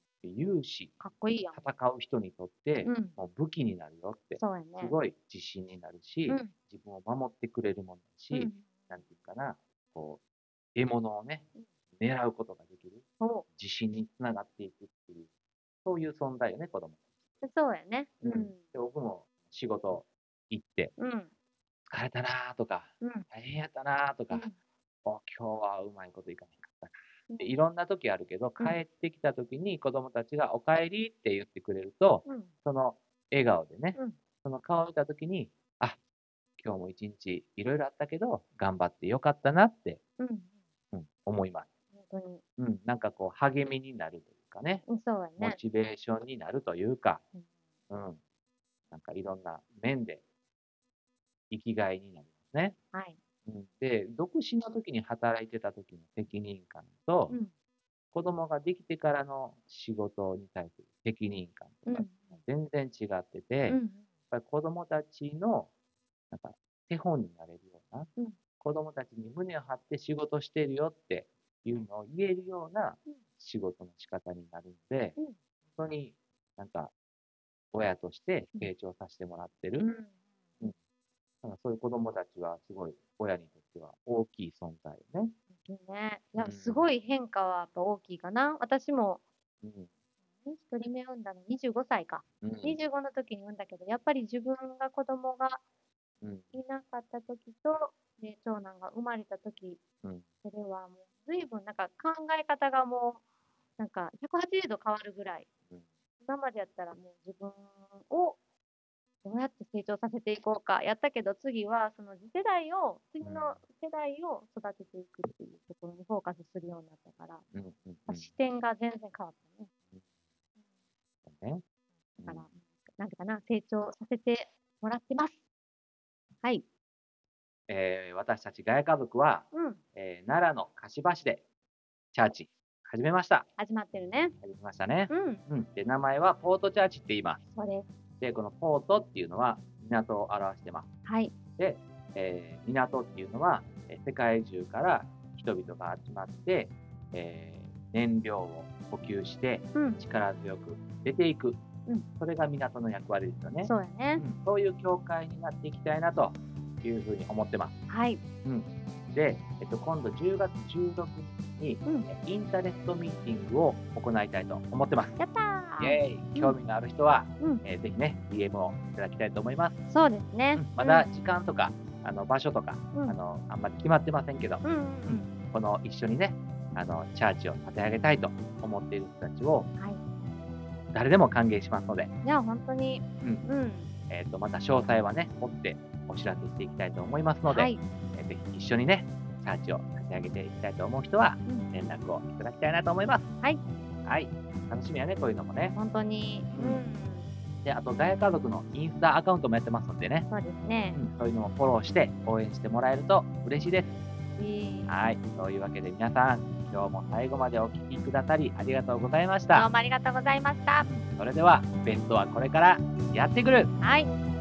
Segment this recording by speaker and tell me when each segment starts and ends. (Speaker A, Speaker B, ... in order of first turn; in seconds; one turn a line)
Speaker A: 0.2-0.9
Speaker B: 1.0-1.7
Speaker A: 1.5-10.2
Speaker B: 2.8-3.2
Speaker B: 4.4-5.0
Speaker B: 6.3-6.5
Speaker B: 8.3-8.9
Speaker A: 10.8-11.4
Speaker A: 12.0-13.0
Speaker B: 13.2-13.4
Speaker A: 13.6-15.3
Speaker A: 15.8-17.0
Speaker B: 17.4-18.6
Speaker A: 18.2-20.9
Speaker B: 21.0-21.3
Speaker A: 21.9-24.5
Speaker B: 23.0-23.3
Speaker A: 25.1-36.0
Speaker B: 27.3-27.6
Speaker B: 32.3-32.5
Speaker A: 36.6-40.0
Speaker B: 40.2-40.5
Speaker A: 40.9-41.7
Speaker B: 42.0-42.4
Speaker A: 42.6-44.9
Speaker B: 44.9-45.6
Speaker A: 45.4-47.2
Speaker A: 47.9-48.2
Speaker A: 48.9-50.2
Speaker A: 51.5-52.8
Speaker B: 52.9-53.2
Speaker A: 53.5-57.4
Speaker A: 58.1-63.8
Speaker B: 61.9-62.2
Speaker B: 63.7-64.0
Speaker A: 64.3-65.7
Speaker A: 66.3-75.2
Speaker A: 75.7-76.9
Speaker A: 77.7-79.9
Speaker B: 79.8-80.1
Speaker A: 81.4-85.3
Speaker B: 85.6-89.2
Speaker A: 86.4-86.9
Speaker A: 89.6-89.9
Speaker B: 90.5-95.6
Speaker A: 92.4-92.8
Speaker A: 96.2-96.6
Speaker B: 96.5-99.8
Speaker B: 100.4-103.2
Speaker B: 103.8-105.5
Speaker B: 106.2-108.4
Speaker B: 109.2-117.4
Speaker A: 113.2-113.6
Speaker A: 117.5-118.3
Speaker B: 118.1-119.7
Speaker A: 121.2-121.6
Speaker A: 122.2-122.5
Speaker B: 122.3-125.4
Speaker A: 127.7-131.4
Speaker B: 129.5-129.8
Speaker A: 132.1-133.5
Speaker B: 133.6-134.3
Speaker A: 134.4-137.4
Speaker B: 135.1-135.4
Speaker B: 137.6-137.9
Speaker A: 138.2-140.9
Speaker B: 141.1-141.4
Speaker A: 141.6-151.6
Speaker B: 149.8-150.0
Speaker A: 152.2-157.7
Speaker B: 153.6-154.2
Speaker B: 157.9-158.2
Speaker A: 158.4-165.2
Speaker B: 161.8-162.1
Speaker B: 165.2-166.6
Speaker A: 165.8-169.8
Speaker B: 169.9-171.1
Speaker A: 170.5-179.7
Speaker B: 174.6-175.3
Speaker A: 180.9-182.1
Speaker B: 182.2-183.9
Speaker A: 184.1-193.3
Speaker B: 187.5-187.8
Speaker A: 194.1-195.8
Speaker B: 195.8-197.3
Speaker A: 196.5-196.8
Speaker A: 197.6-200.3
Speaker B: 200.3-201.0
Speaker A: 200.9-203.9
Speaker B: 204.4-205.0
Speaker A: 204.9-209.7
Speaker B: 209.5-210.9
Speaker A: 210.8-213.7
Speaker B: 213.8-214.1